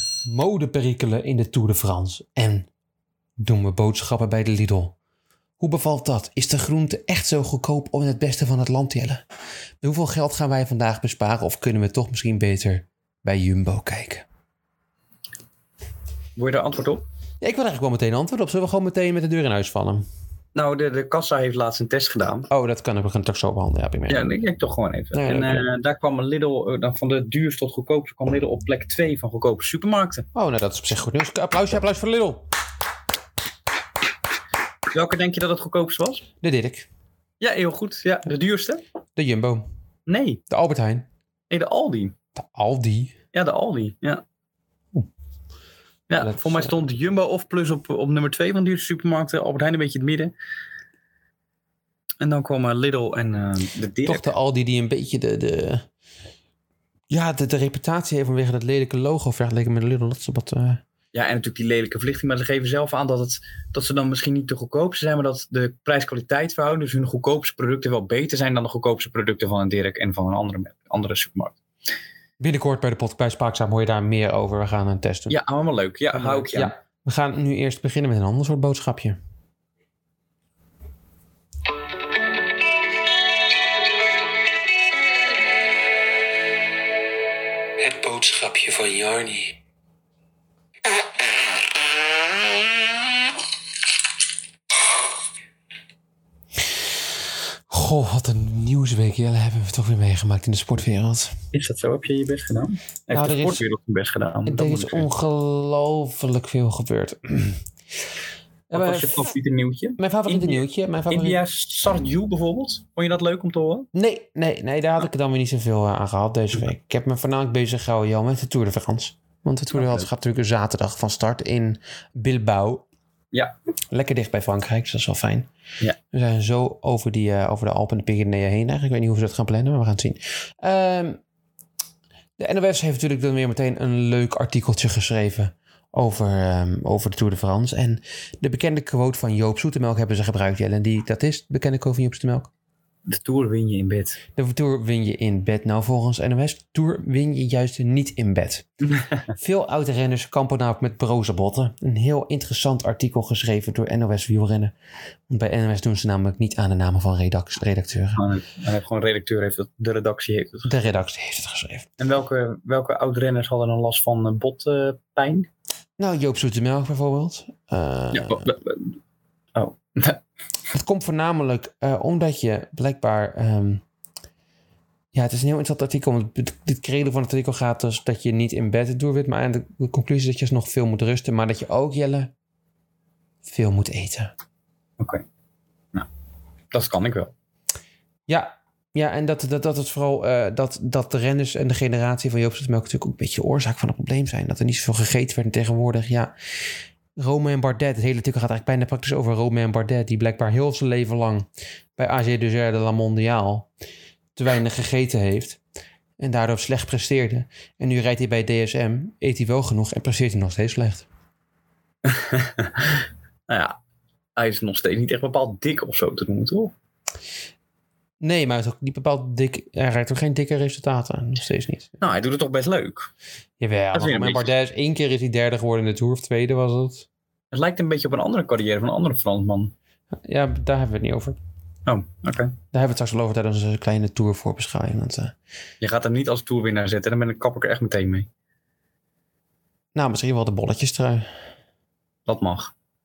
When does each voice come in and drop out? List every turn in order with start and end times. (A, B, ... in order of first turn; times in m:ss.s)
0:00.3-0:02.7 A
0:03.4-0:05.0 A
0:05.6-0:09.2 A
0:09.8-0:14.2 A
0:16.4-0:17.0 B
0:17.4-0:20.0 A
0:20.6-0:22.5 B
0:22.5-0:24.3 A
0:24.1-0:30.2 B
0:25.1-0:25.7 A
0:30.3-0:32.4 A
0:34.9-0:36.2 B
0:36.4-0:36.9 A
0:37.4-0:38.8 B
0:39.2-0:39.6 A
0:40.1-0:40.4 B
0:40.5-0:41.1 A
0:41.5-0:42.1 B
0:42.4-0:43.1 A
0:43.3-0:44.2 B
0:46.1-0:50.3 B
0:46.2-0:46.7 A
0:52.2-0:54.3 B
0:54.1-0:55.8 A
0:57.1-1:00.8 A
1:01.1-1:11.6 B
1:12.4-1:15.4 A
1:15.3-1:16.7 B
1:16.1-1:19.2 A
1:27.8-1:29.6 A
1:37.7-1:41.4 A
1:41.5-1:45.1 B
1:43.1-1:43.6 A
1:44.4-1:47.6 A
1:48.7-1:49.3 A
1:48.7-1:53.9 B
1:50.0-1:51.4 A
1:53.9-2:02.8 A
1:59.7-2:00.1 B
2:03.9-2:05.5 A
2:06.1-2:11.2 A
2:12.4-2:22.5 A
2:23.1-2:24.2 B
2:24.4-2:28.7 A
2:28.9-2:29.2 B
2:29.4-2:34.7 A
2:35.3-2:38.2 A
2:38.2-2:40.7 B
2:40.7-2:41.9 A
2:42.0-2:45.5 B
2:46.0-2:48.5 A
2:48.1-2:49.0 B
2:49.6-2:50.2 B
2:50.7-2:53.8 A
2:55.1-3:02.3 A
3:03.5-3:04.3 A
3:05.0-3:05.2 B
3:06.7-3:07.3 B
3:08.3-3:16.3 A
3:17.2-3:23.7 A
3:24.4-3:25.6 A
3:26.2-3:31.1 A
3:32.0-3:33.8 B
3:34.4-3:36.7 B
3:38.2-3:42.0 A
3:42.0-3:43.1 B
3:43.6-3:47.1 A
3:43.9-3:44.5 B
3:47.5-3:49.7 B
3:50.2-3:51.4 A
3:51.9-3:52.5 B
3:52.7-3:55.4 A
3:55.8-3:58.3 B
4:00.0-4:01.3 A
4:02.3-4:02.7 B